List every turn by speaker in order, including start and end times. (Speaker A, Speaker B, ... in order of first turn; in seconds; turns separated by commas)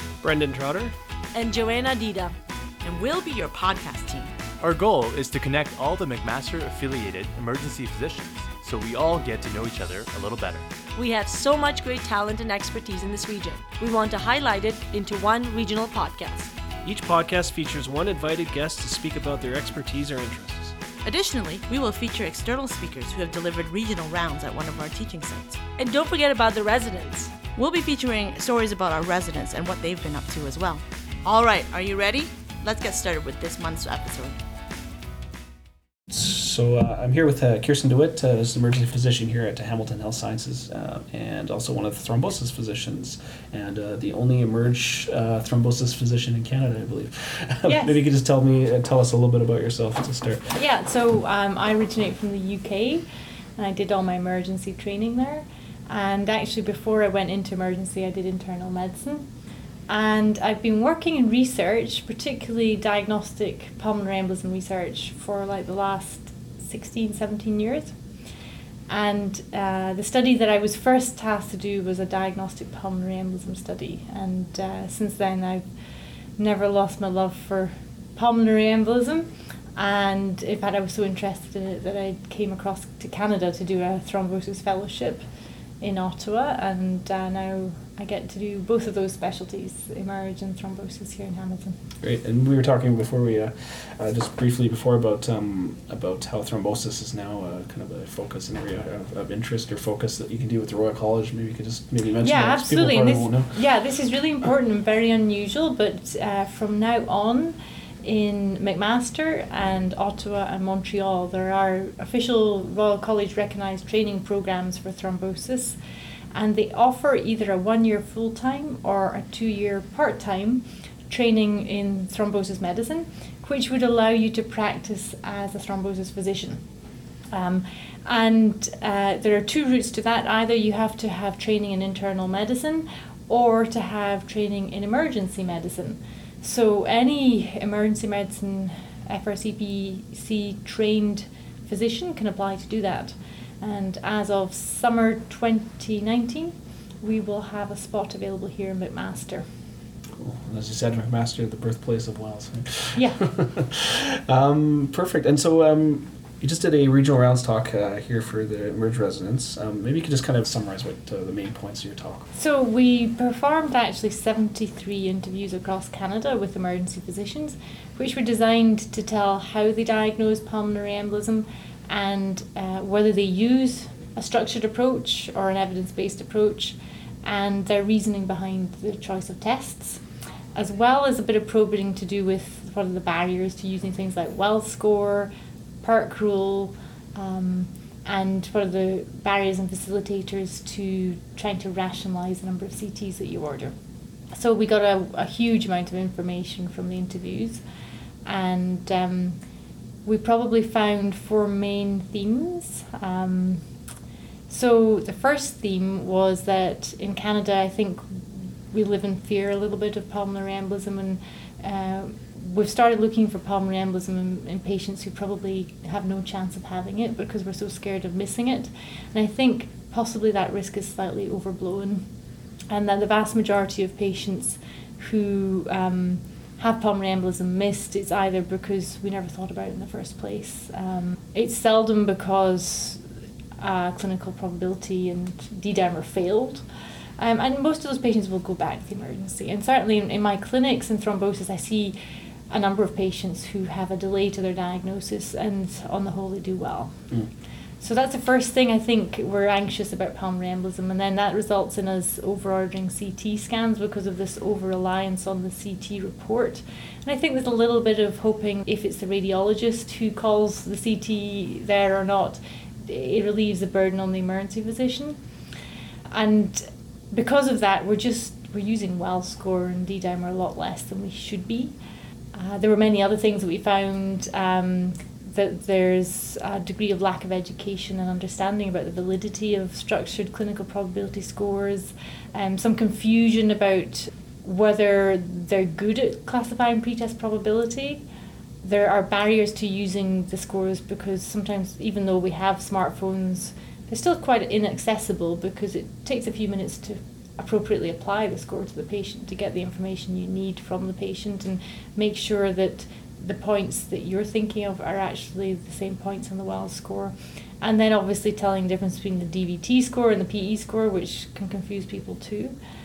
Speaker A: 0.2-0.9, Speaker B: 1.3-2.4, Speaker C: 2.8-4.3, Speaker D: 4.6-10.7, Speaker B: 11.0-16.5, Speaker A: 16.9-20.8, Speaker C: 21.0-25.6, Speaker B: 25.8-27.3, Speaker C: 27.6-34.4, Speaker E: 36.1-50.6, Speaker F: 47.7-48.0, Speaker F: 50.5-53.0, Speaker F: 53.6-59.3, Speaker F: 59.9-68.0, Speaker F: 68.9-75.6, Speaker F: 76.4-85.3, Speaker F: 85.8-91.8, Speaker E: 92.0-103.6, Speaker F: 102.2-115.8, Speaker F: 116.3-126.6, Speaker F: 127.3-149.4, Speaker E: 150.2-162.3, Speaker F: 152.9-153.2, Speaker F: 162.3-180.0, Speaker F: 180.6-193.7, Speaker F: 194.3-197.6, Speaker F: 198.3-199.4, Speaker F: 200.1-203.7, Speaker F: 204.5-222.1, Speaker F: 222.7-233.0, Speaker F: 233.6-236.6, Speaker F: 237.2-242.0, Speaker F: 242.5-247.0, Speaker F: 247.8-265.2, Speaker F: 266.1-271.7, Speaker F: 272.3-288.0, Speaker F: 288.6-312.6